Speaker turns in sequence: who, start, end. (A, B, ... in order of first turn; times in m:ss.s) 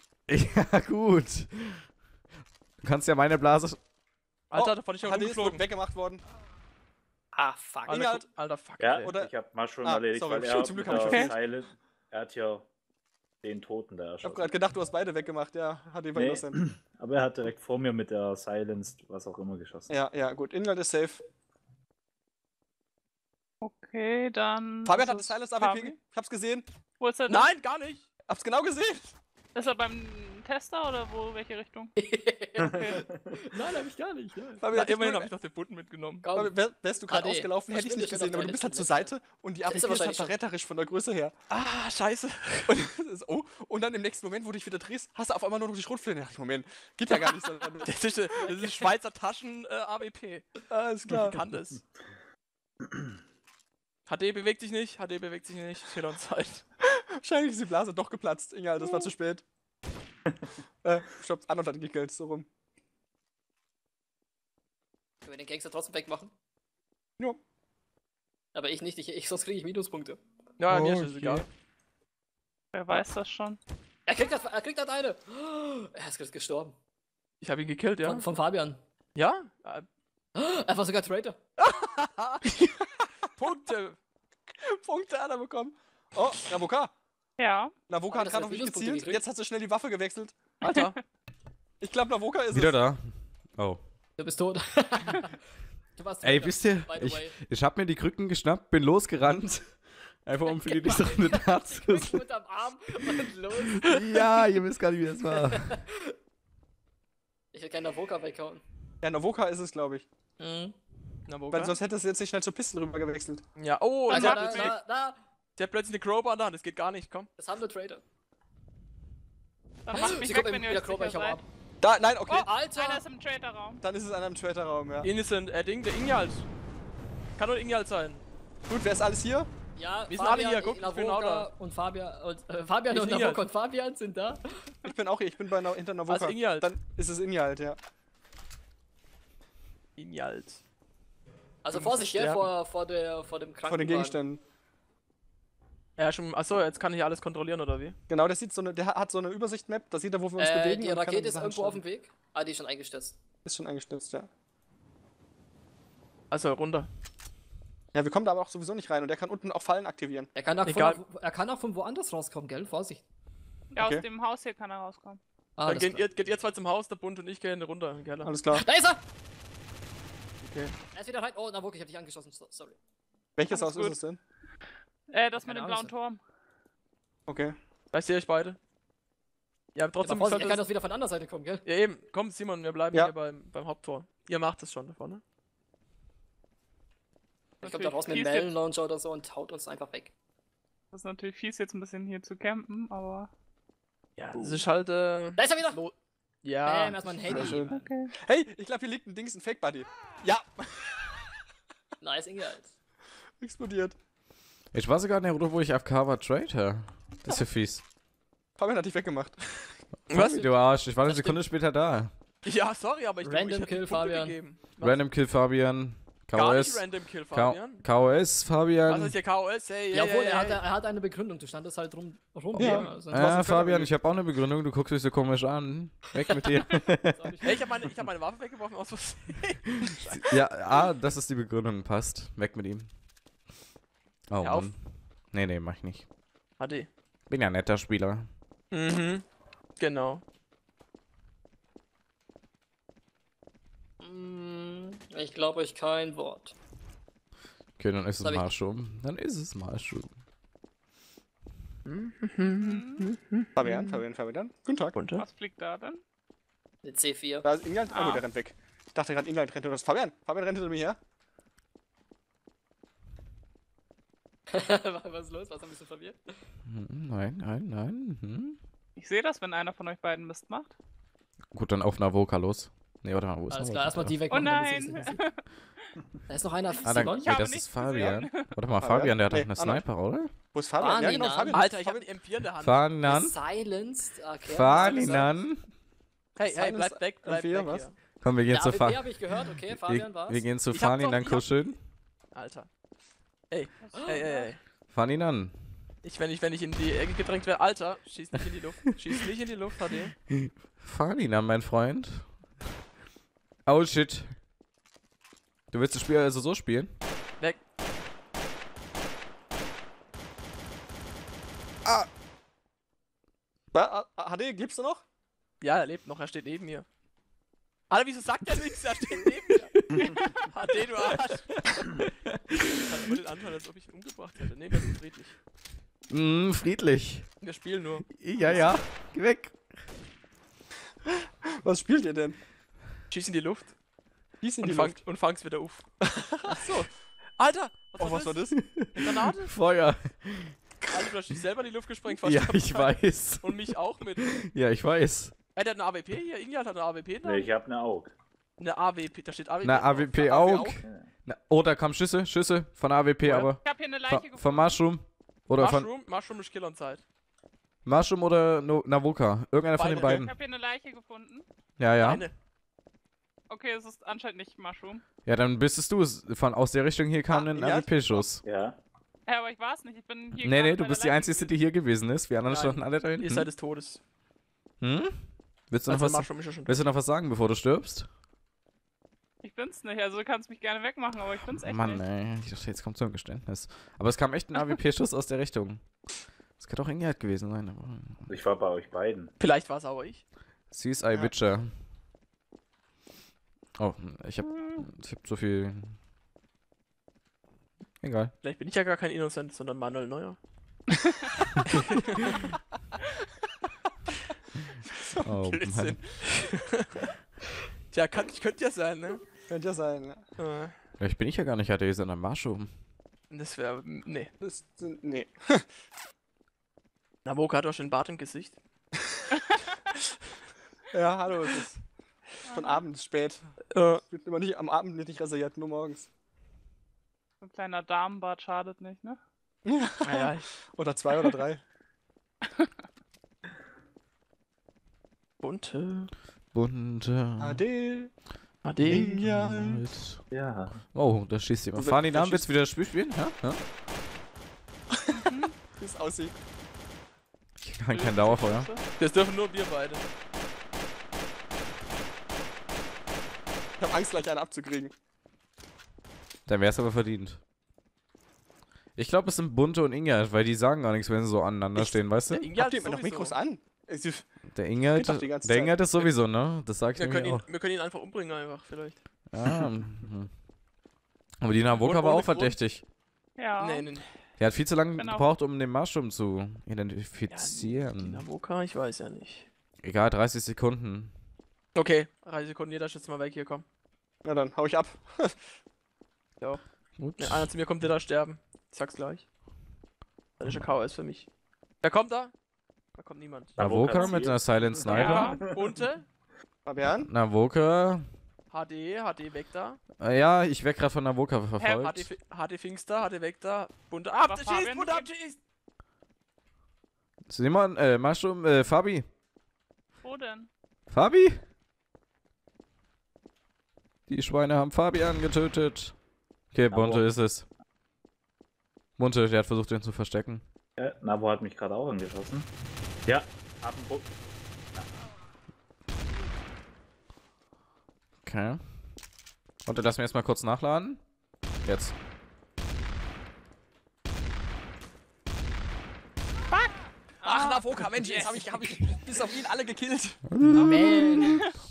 0:00.3-0:01.9 A
0:02.8-0:03.8 A
0:04.5-0:05.6 B
0:04.6-0:06.2 C
0:07.3-0:08.0 D
0:07.9-0:09.1 B
0:07.9-0:08.3 C
0:08.8-0:12.7 E
0:09.0-0:09.3 C
0:09.8-0:11.4 C
0:13.4-0:14.5 E
0:14.2-0:16.6 C
0:16.1-0:19.9 E
0:19.9-0:21.2 C
0:23.6-0:26.0 F
0:24.8-0:26.7 C
0:27.0-0:27.5 F
0:27.3-0:28.1 B
0:28.3-0:29.1 C
0:29.6-0:31.9 F
0:32.0-0:34.7 D
0:32.6-0:33.0 F
0:32.9-0:33.2 E
0:34.6-0:35.3 C
0:34.7-0:36.2 B
0:36.2-0:36.5 D
0:36.3-0:41.3 C
0:37.1-0:39.1 D
0:39.7-0:40.4 D
0:41.5-0:42.7 B
0:42.7-0:48.0 C
0:47.1-0:50.5 B
0:50.7-0:51.4 C
0:51.1-0:51.8 B
0:54.1-0:56.6 B
0:56.8-0:59.4 C
1:00.8-1:02.5 C
1:05.2-1:06.3 D
1:08.5-1:10.2 D
1:10.6-1:11.5 B
1:10.7-1:11.4 C
1:12.7-1:13.6 F
1:14.1-1:16.8 D
1:17.4-1:18.2 B
1:18.0-1:18.8 D
1:19.2-1:19.9 B
1:20.4-1:21.4 D
1:21.6-1:22.4 B
1:23.4-1:24.0 B
1:24.6-1:26.9 C
1:27.4-1:27.7 F
1:27.9-1:30.4 C
1:28.1-1:29.2 D
1:30.6-1:31.0 B
1:30.7-1:31.0 F
1:31.8-1:32.8 C
1:32.5-1:33.0 A
1:34.2-1:35.4 D
1:36.0-1:37.4 D
1:36.2-1:39.7 A
1:40.2-1:42.2 A
1:40.4-1:44.3 D
1:43.5-1:45.8 A
1:45.3-1:46.1 D
1:47.5-1:48.6 D
1:49.0-1:50.1 C
1:50.4-1:50.8 D
1:51.3-1:51.8 B
1:51.5-1:53.4 C
1:53.6-1:54.8 B
1:54.1-1:55.2 D
1:54.1-1:54.7 F
1:55.6-1:57.3 B
1:57.4-1:58.0 D
1:59.9-2:01.4 F
1:59.9-2:01.4 D
2:01.8-2:02.5 C
2:02.3-2:03.1 D
2:02.3-2:03.8 F
2:03.8-2:05.1 C
2:05.0-2:06.5 B
2:07.4-2:08.2 B
2:08.7-2:09.5 C
2:09.8-2:14.9 D
2:10.1-2:11.5 B
2:12.9-2:13.4 B
2:14.8-2:17.8 C
2:16.1-2:16.7 B
2:20.0-2:20.6 B
2:21.6-2:24.2 D
2:21.8-2:22.5 B
2:23.7-2:24.4 C
2:26.0-2:28.0 B
2:28.1-2:31.8 C
2:30.4-2:33.2 D
2:33.4-2:34.3 C
2:36.3-2:36.9 B
2:37.9-2:40.3 C
2:40.4-2:43.0 D
2:40.6-2:41.0 B
2:43.7-2:45.2 F
2:43.8-2:44.0 C
2:45.6-2:46.1 D
2:45.7-2:48.3 B
2:48.2-2:48.6 C
2:48.5-2:49.0 D
2:50.4-2:50.7 B
2:50.9-2:52.8 D
2:53.4-2:54.2 C
2:53.5-2:54.0 F
2:55.1-2:56.2 F
2:55.4-2:55.9 D
2:57.3-2:57.6 C
2:57.9-2:58.6 B
2:59.8-3:00.7 B
3:00.0-3:01.6 D
3:01.6-3:05.2 B
3:07.6-3:10.1 D
3:07.6-3:08.5 F
3:10.9-3:13.3 F
3:14.2-3:17.6 B
3:15.4-3:15.8 D
3:16.6-3:17.8 D
3:17.3-3:21.2 C
3:17.7-3:18.1 F
3:22.0-3:22.7 D
3:23.4-3:24.0 C
3:24.7-3:27.8 A
3:28.6-3:29.8 C
3:30.1-3:32.1 A
3:30.1-3:30.4 B
3:30.2-3:31.4 D
3:32.4-3:35.0 B
3:33.2-3:34.4 D
3:34.8-3:39.2 A
3:36.3-3:37.8 B
3:38.8-3:40.6 B
3:39.9-3:43.3 D
3:42.6-3:43.9 C
3:42.6-3:47.3 A
3:47.2-3:47.6 D
3:47.4-3:50.2 B
3:49.8-3:52.9 A
3:54.3-3:56.1 A
3:54.4-3:54.7 B
3:56.6-3:56.9 B
3:57.3-3:58.3 A
3:58.7-3:59.2 B
3:59.8-4:00.2 B
4:04.0-4:06.5 D
4:07.8-4:10.1 A
4:08.2-4:08.5 D
4:11.8-4:14.0 B
4:12.4-4:13.1 F
4:13.6-4:15.0 C
4:14.9-4:15.2 B
4:15.2-4:16.0 F
4:16.8-4:17.5 D
4:17.4-4:21.0 C
4:17.9-4:18.2 F
4:24.5-4:26.2 D
4:26.7-4:28.6 A
4:29.0-4:30.8 F
4:31.5-4:34.2 A
4:33.5-4:35.2 D
4:34.3-4:35.4 F
4:36.3-4:37.3 D
4:36.8-4:38.5 F
4:36.8-4:40.3 A
4:38.8-4:39.8 C
4:40.5-4:42.1 C
4:40.8-4:41.7 D
4:41.5-4:42.8 B
4:42.6-4:43.4 A
4:43.0-4:45.4 D
4:44.5-4:45.7 A
4:44.8-4:45.2 B
4:46.4-4:48.0 B
4:46.5-4:47.8 C
4:48.2-4:51.8 A
4:48.5-4:50.4 D
4:50.7-4:51.5 B
4:52.3-4:52.7 B
4:53.5-4:54.6 B
4:53.8-4:54.5 F
4:54.0-4:54.2 D
4:54.9-4:55.5 A
4:56.0-5:00.1 B
5:00.3-5:02.3 A
5:03.7-5:04.4 A
5:05.7-5:06.9 A
5:13.7-5:15.0 C
5:15.6-5:16.8 B
5:17.9-5:19.7 B
5:20.0-5:20.4 F
5:20.4-5:21.6 B
5:21.8-5:22.0 A
5:22.7-5:25.4 B
5:26.1-5:27.3 A
5:27.4-5:28.7 B
5:28.1-5:29.6 A
5:31.1-5:32.4 C
5:33.1-5:33.7 B
5:34.4-5:35.0 C
5:34.6-5:35.9 B
5:36.0-5:36.9 C
5:36.5-5:39.5 B
5:38.0-5:38.6 C
5:38.6-5:40.9 A
5:40.9-5:44.4 B
5:42.1-5:43.6 A
5:44.2-5:45.3 A
5:45.6-5:47.5 B
5:47.2-5:48.1 E
5:48.6-5:50.8 B
5:49.6-5:55.9 A
5:50.8-5:51.1 E
5:53.2-5:53.5 B
5:53.6-5:54.8 F
5:55.6-5:57.0 B
5:57.8-6:00.4 A
5:59.7-6:00.2 B
6:00.0-6:01.5 F
6:01.8-6:02.3 A
6:02.0-6:02.3 B
6:03.5-6:05.0 F
6:05.2-6:08.4 A
6:07.3-6:08.3 C
6:08.4-6:08.8 E
6:09.3-6:11.6 F
6:10.4-6:13.5 A
6:12.5-6:14.0 B
6:14.8-6:18.1 A
6:15.9-6:16.8 B
6:19.4-6:22.0 F
6:21.6-6:25.8 A
6:26.6-6:28.3 A
6:28.3-6:29.3 E
6:29.4-6:30.2 B
6:30.7-6:31.7 A
6:33.8-6:36.0 A
6:34.5-6:34.8 F
6:38.0-6:38.3 A
6:38.4-6:40.4 B
6:41.8-6:42.3 B
6:45.2-6:46.0 A
6:45.5-6:47.1 B
6:47.9-6:49.2 B
6:49.5-6:50.2 C
6:50.4-6:50.7 B
6:51.0-6:52.7 A
6:53.3-6:54.3 B
6:54.4-6:55.7 C
6:57.2-6:58.6 B
7:00.9-7:01.8 C
7:02.4-7:02.9 F
7:02.5-7:03.4 C
7:03.7-7:04.0 B
7:04.1-7:06.1 C
7:07.4-7:09.2 F
7:09.7-7:11.6 C
7:10.0-7:10.5 B
7:15.4-7:16.1 B
7:16.5-7:17.6 A
7:17.4-7:18.1 C
7:18.6-7:19.2 B
7:18.8-7:20.2 A
7:18.8-7:19.8 C
7:20.3-7:20.8 E
7:20.9-7:23.6 A
7:21.8-7:22.5 C
7:25.2-7:25.5 F
7:25.7-7:26.4 C
7:27.6-7:28.7 A
7:27.9-7:28.8 F
7:29.0-7:30.0 B
7:33.8-7:34.9 C
7:36.5-7:37.4 A
7:39.0-7:42.5 A
7:41.8-7:43.4 B
7:42.6-7:44.2 C
7:44.5-7:47.5 A
7:44.9-7:45.8 C
7:47.0-7:49.0 B
7:49.3-7:50.3 A
7:51.4-7:52.8 A
7:51.8-7:52.6 B
7:53.4-7:53.9 F
7:53.6-7:54.0 B
7:54.4-7:58.2 A
7:55.0-7:55.3 F
7:57.3-7:59.5 B
7:59.8-8:01.1 A
8:01.8-8:03.6 B
8:04.2-8:05.4 C
8:07.0-8:07.5 A
8:07.2-8:09.2 B
8:10.4-8:11.3 B
8:11.8-8:12.3 B
8:13.0-8:13.6 B
8:13.6-8:15.6 E
8:13.6-8:15.2 A
8:14.9-8:16.0 B
8:14.9-8:15.4 F
8:16.6-8:17.1 C
8:17.0-8:18.0 A
8:18.5-8:19.8 B
8:20.0-8:22.1 A
8:21.8-8:25.4 B
8:24.2-8:25.1 F
8:27.3-8:29.0 A
8:30.0-8:30.5 F
8:30.9-8:31.4 A
8:34.1-8:36.0 A
8:36.5-8:37.5 A
8:36.7-8:37.1 E
8:39.0-8:40.4 A
8:40.8-8:42.5 E
8:43.0-8:44.2 E
8:48.2-8:48.6 A
8:49.7-8:51.0 A
8:51.6-8:51.9 A
8:57.2-8:58.7 F
8:57.2-9:00.2 C
9:00.3-9:01.3 A
9:00.5-9:01.4 D